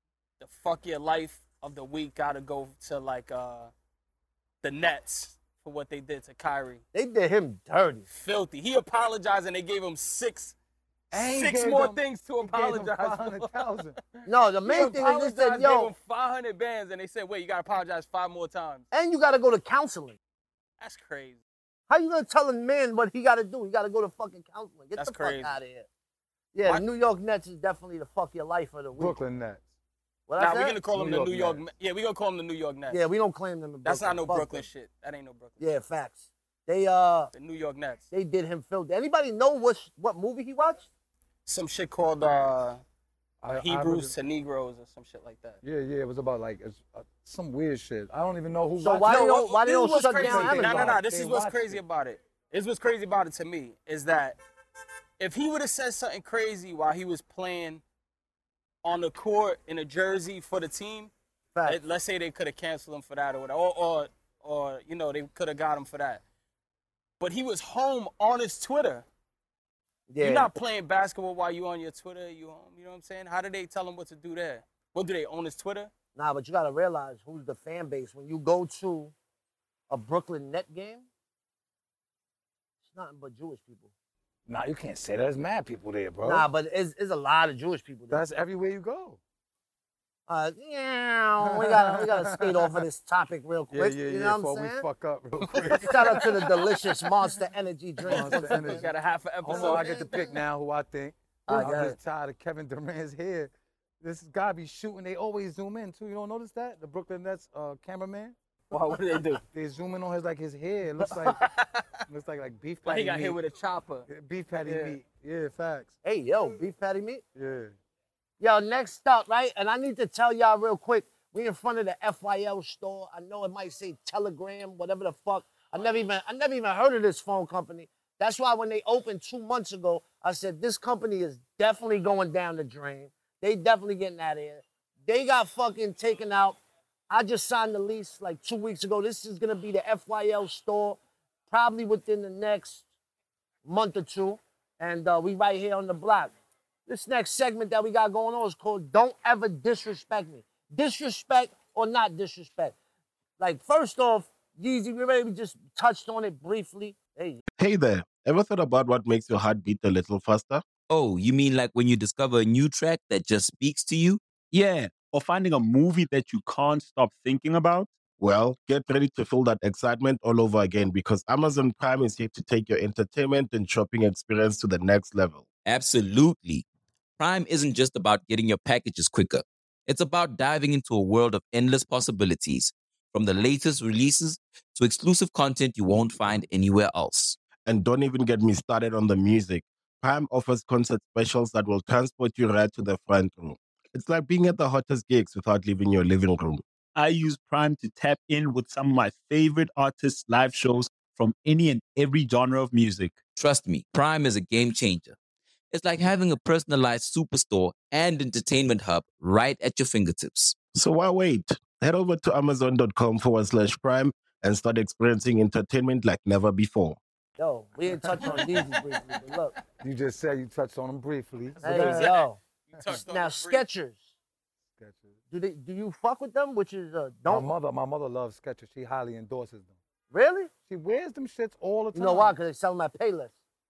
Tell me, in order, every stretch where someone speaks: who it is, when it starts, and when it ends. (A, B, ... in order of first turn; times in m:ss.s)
0:00.4-0:03.7 A
0:04.6-0:06.8 A
0:06.9-0:08.0 B
0:08.1-0:10.6 A
0:11.1-0:14.0 C
0:11.1-0:13.6 A
0:14.2-0:15.9 B
0:14.6-0:18.8 A
0:18.9-0:20.2 B
0:20.8-0:21.4 A
0:21.9-0:25.9 B
0:25.0-0:25.6 A
0:26.5-0:29.2 B
0:29.0-0:29.6 C
0:30.3-0:30.8 B
0:30.4-0:33.0 A
0:30.9-0:31.6 C
0:32.9-0:34.6 B
0:33.8-0:35.6 A
0:35.6-0:37.3 B
0:37.3-0:38.1 A
0:38.1-0:40.9 B
0:41.4-0:42.8 A
0:43.4-0:44.1 C
0:43.5-0:45.6 A
0:45.6-0:51.8 C
0:48.8-0:51.0 B
0:49.0-0:54.4 A
0:55.2-0:57.8 A
0:58.8-1:01.1 A
1:01.5-1:01.8 B
1:01.6-1:06.2 A
1:07.2-1:09.0 A
1:10.1-1:10.5 B
1:10.2-1:15.9 A
1:16.2-1:19.1 B
1:19.9-1:21.0 B
1:22.8-1:23.9 B
1:24.5-1:26.5 C
1:26.2-1:28.2 B
1:28.1-1:29.2 C
1:30.3-1:34.8 B
1:31.4-1:32.8 C
1:33.7-1:36.7 C
1:35.7-1:38.9 B
1:38.0-1:38.9 C
1:38.1-1:40.0 A
1:39.4-1:48.4 C
1:39.5-1:40.1 B
1:41.5-1:42.0 B
1:48.7-1:49.4 A
1:49.5-1:51.4 C
1:51.1-1:51.8 A
1:52.1-1:53.4 C
1:52.8-1:54.1 A
1:54.1-1:55.9 C
1:54.6-1:55.0 A
1:56.0-1:57.2 B
1:57.3-1:57.7 C
1:58.4-2:16.6 B
2:17.1-2:22.8 B
2:23.6-2:26.3 B
2:26.9-2:32.8 B
2:33.4-2:37.4 B
2:37.6-2:40.6 D
2:40.9-2:44.2 E
2:44.5-2:47.9 F
2:48.2-2:55.4 D
2:55.6-2:56.6 E
2:57.2-3:07.4 E
3:07.6-3:16.6 D
3:16.9-3:23.2 F
3:23.3-3:25.2 E
3:25.7-3:30.6 E
3:30.7-3:37.0 D
3:37.4-3:39.5 B
3:37.9-3:38.8 C
3:39.8-3:42.2 C
3:41.5-3:43.6 A
3:41.6-3:44.0 B
3:44.7-3:45.2 C
3:45.3-3:47.5 B
3:47.3-3:49.8 C
3:50.1-3:50.5 B
3:50.7-3:52.4 C
3:51.9-3:53.3 B